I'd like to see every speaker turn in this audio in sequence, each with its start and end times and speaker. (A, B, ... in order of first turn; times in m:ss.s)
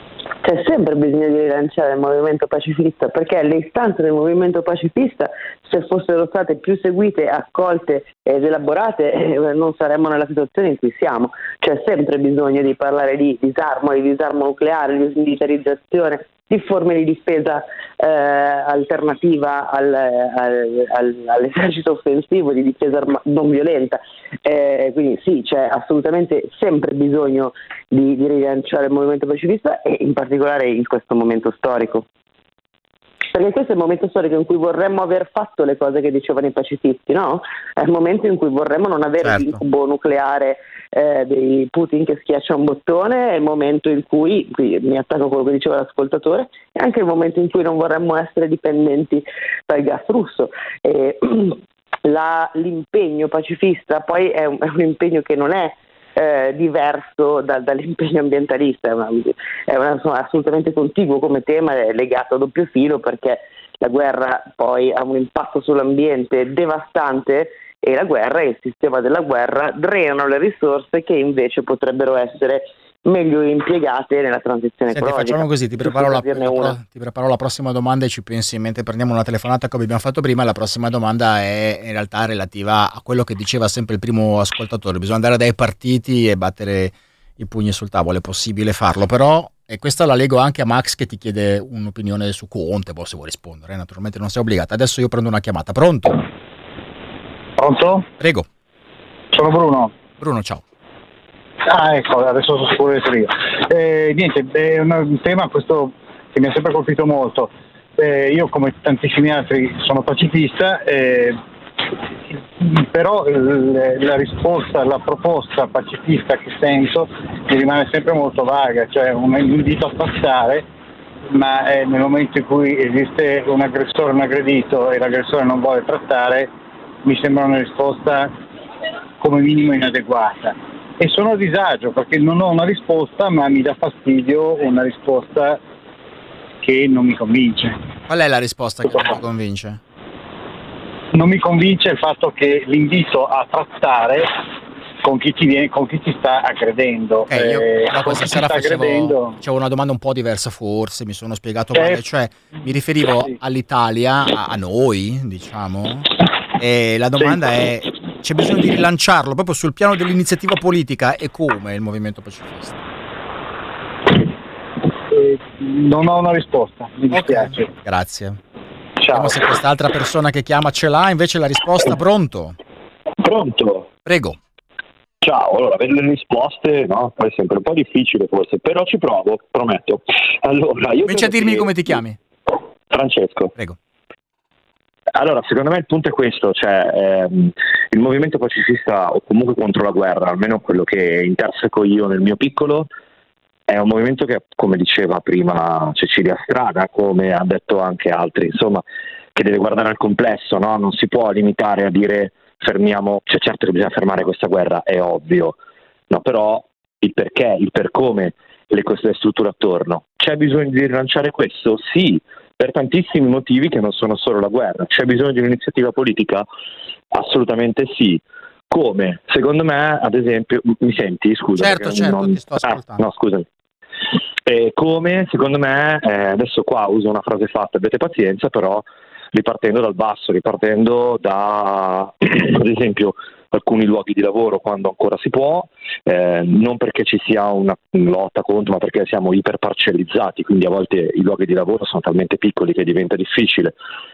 0:00.4-0:32.1 A
0:33.3-1:16.8 A
0:39.2-0:39.6 B
1:14.9-1:36.2 B
1:37.6-1:38.0 C
1:38.2-1:38.5 B
1:39.3-1:39.9 C
1:40.2-1:40.6 B
1:41.7-1:51.4 C
1:52.3-2:00.6 C
2:01.3-2:06.5 C
2:07.0-2:08.3 C
2:09.2-2:15.6 C
2:16.6-2:17.8 C
2:18.1-2:19.8 B
2:18.9-2:19.1 C
2:21.1-2:24.3 C
2:25.0-2:29.3 C
2:27.3-2:42.8 B
2:31.8-2:32.0 C
2:45.1-2:47.7 C
2:47.1-2:48.4 B
2:49.0-2:49.4 C
2:49.1-2:52.6 B
2:53.2-2:53.9 D
2:54.1-2:54.4 B
2:55.2-3:01.8 D
3:01.0-3:02.2 B
3:02.9-3:03.5 D
3:05.2-3:12.9 D
3:13.7-3:18.8 D
3:19.4-3:25.6 D
3:26.1-3:36.5 D
3:37.1-3:43.5 D
3:41.6-3:43.0 B
3:44.5-4:03.7 D